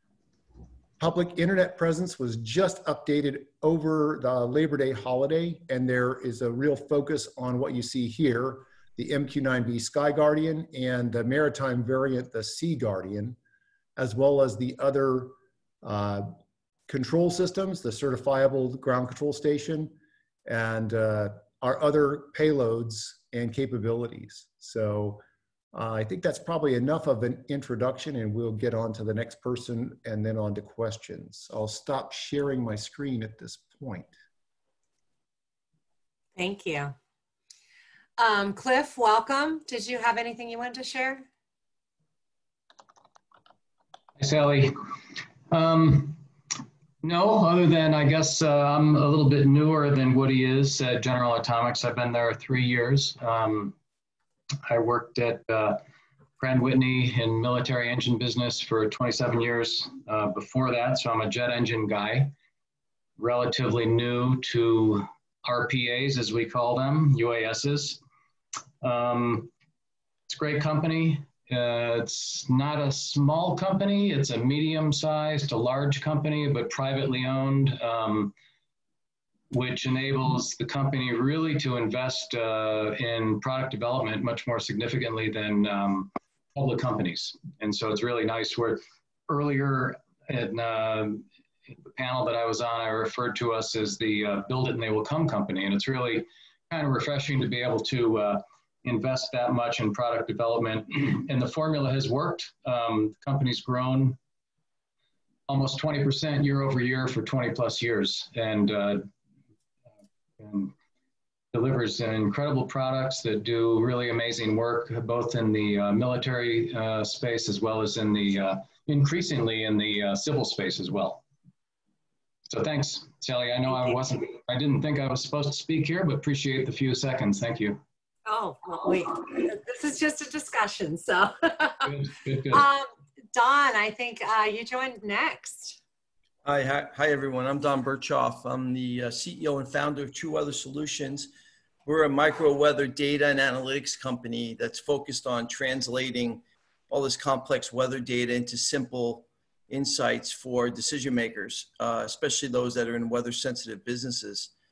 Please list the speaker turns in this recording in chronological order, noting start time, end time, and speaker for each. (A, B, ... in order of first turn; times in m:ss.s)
0:01.0-0:13.4 A
0:14.0-0:16.4 A
0:16.9-0:34.1 A
0:36.4-0:37.0 B
0:38.2-0:41.3 B
0:44.2-0:44.8 C
0:45.5-0:46.2 C
0:47.0-0:53.8 C
0:54.6-0:55.8 C
0:56.4-1:02.4 C
1:03.2-1:08.0 C
1:08.8-1:09.5 C
1:10.3-1:18.3 C
1:19.5-1:31.3 C
1:31.9-1:44.2 C
1:45.5-1:49.1 C
1:50.4-1:50.7 C
1:51.5-2:01.2 C
2:02.5-2:07.8 C
2:08.3-2:11.9 B
2:11.8-2:12.6 C
2:12.5-2:15.8 B
2:16.4-2:21.3 D
2:21.9-2:34.5 D